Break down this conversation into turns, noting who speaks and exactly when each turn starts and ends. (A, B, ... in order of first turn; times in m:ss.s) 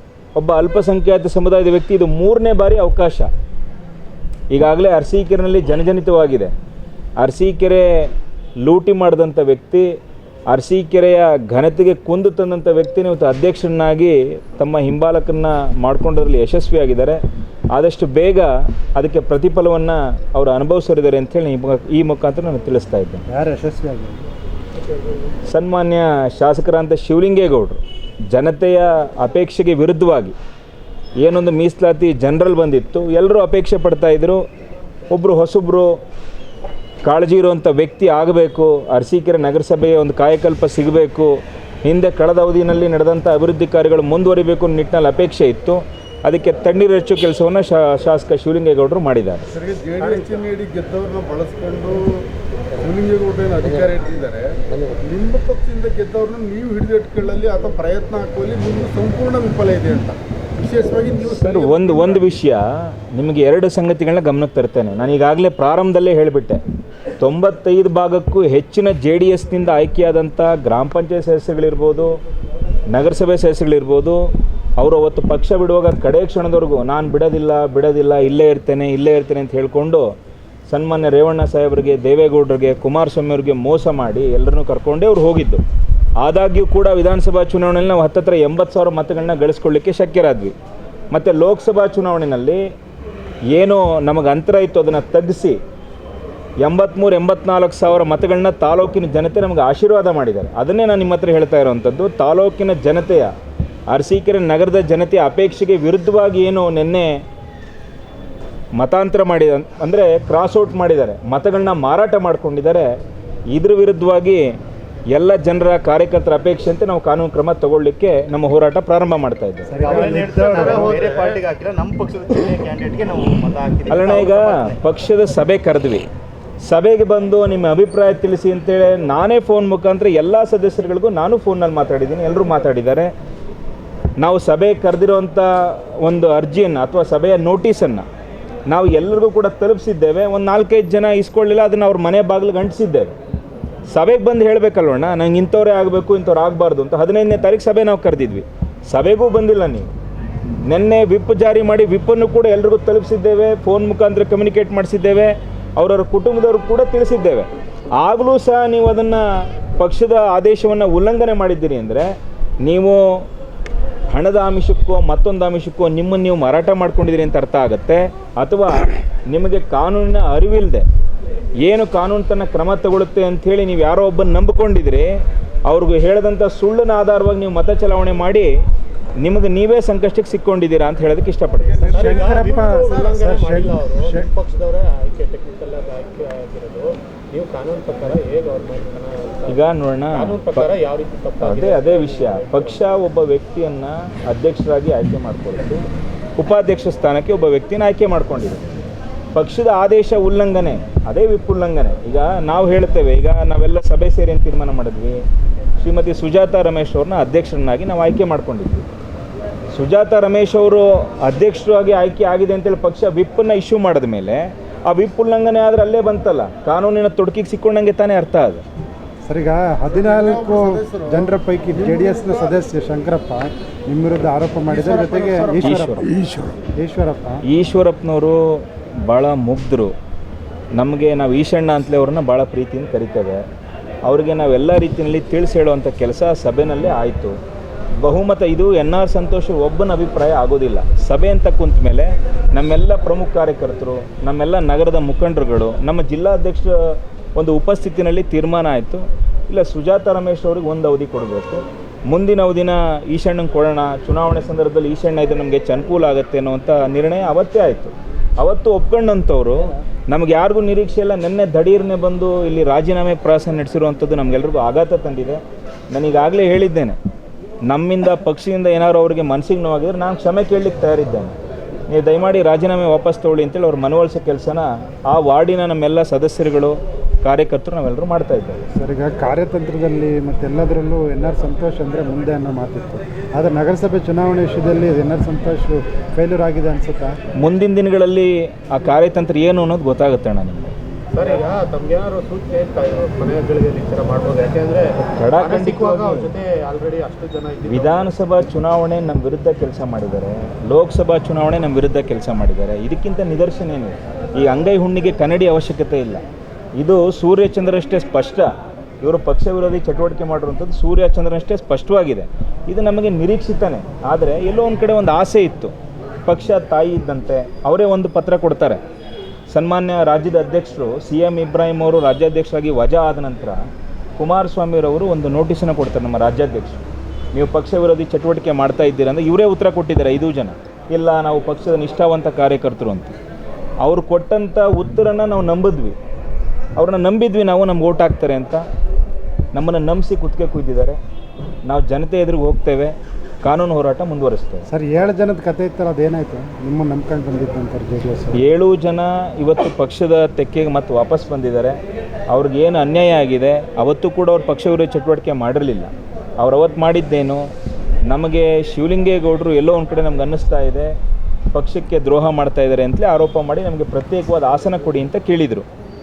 0:00.4-0:03.3 A
0:04.5-0:06.5 A
0:07.2-0:08.1 A
0:08.6-0:10.0 A
0:10.5-0:17.2 A
0:17.7-0:23.2 A
0:23.3-0:24.2 B
0:25.5-0:30.4 A
0:31.2-0:34.4 A
0:35.1-0:36.0 A
0:37.0-0:41.3 A
0:41.8-0:49.5 A
0:49.5-0:52.2 C
0:52.8-1:02.2 C
1:01.3-1:06.6 A
1:07.2-1:12.1 A
1:12.9-1:14.2 A
1:14.8-1:20.1 A
1:20.7-1:25.6 A
1:26.2-1:30.6 A
1:31.1-1:32.6 A
1:33.5-1:35.6 A
1:36.6-1:43.3 A
1:43.9-1:47.2 A
1:48.8-1:52.9 A
1:53.5-1:54.5 A
1:55.1-1:59.8 A
1:59.7-2:01.0 B
1:59.8-2:04.8 D
1:59.8-2:01.4 E
2:03.9-2:06.1 A
2:06.6-2:13.1 A
2:14.2-2:18.1 A
2:18.7-2:23.1 A
2:23.9-2:29.9 A
2:30.6-2:39.2 A
2:39.8-2:42.1 A
2:42.6-2:43.0 A
2:44.1-2:50.9 A
2:51.6-2:58.5 A
2:59.2-3:01.8 A
3:01.8-3:04.3 B
3:01.9-3:12.9 E
3:02.0-3:03.1 C
3:09.5-3:10.7 A
3:11.4-3:15.8 A
3:16.4-3:18.6 A
3:19.4-3:25.2 A
3:25.8-3:28.8 A
3:29.7-3:38.6 A
3:39.3-3:47.4 B
3:39.9-3:42.6 C
3:44.7-3:45.8 C
3:45.6-3:46.1 A
3:47.5-3:48.4 A
3:49.1-3:49.9 A
3:50.8-3:53.4 A
3:54.0-3:57.4 A
3:58.0-4:27.0 A
4:27.7-4:31.4 A
4:31.9-4:38.6 A
4:38.7-4:47.2 B
4:47.4-4:50.7 A
4:51.1-4:58.1 E
4:55.0-4:56.3 A
4:57.7-5:06.2 A
5:06.8-5:08.5 A
5:09.0-5:18.8 A
5:19.5-5:23.6 A
5:24.2-5:26.8 A
5:27.3-5:33.1 A
5:33.8-5:36.0 A
5:36.8-5:38.6 A
5:39.5-5:41.0 A
5:41.7-5:44.7 A
5:44.7-5:48.4 B
5:48.4-5:51.8 A
5:52.3-5:57.4 A
5:58.1-6:00.9 A
6:01.5-6:05.7 A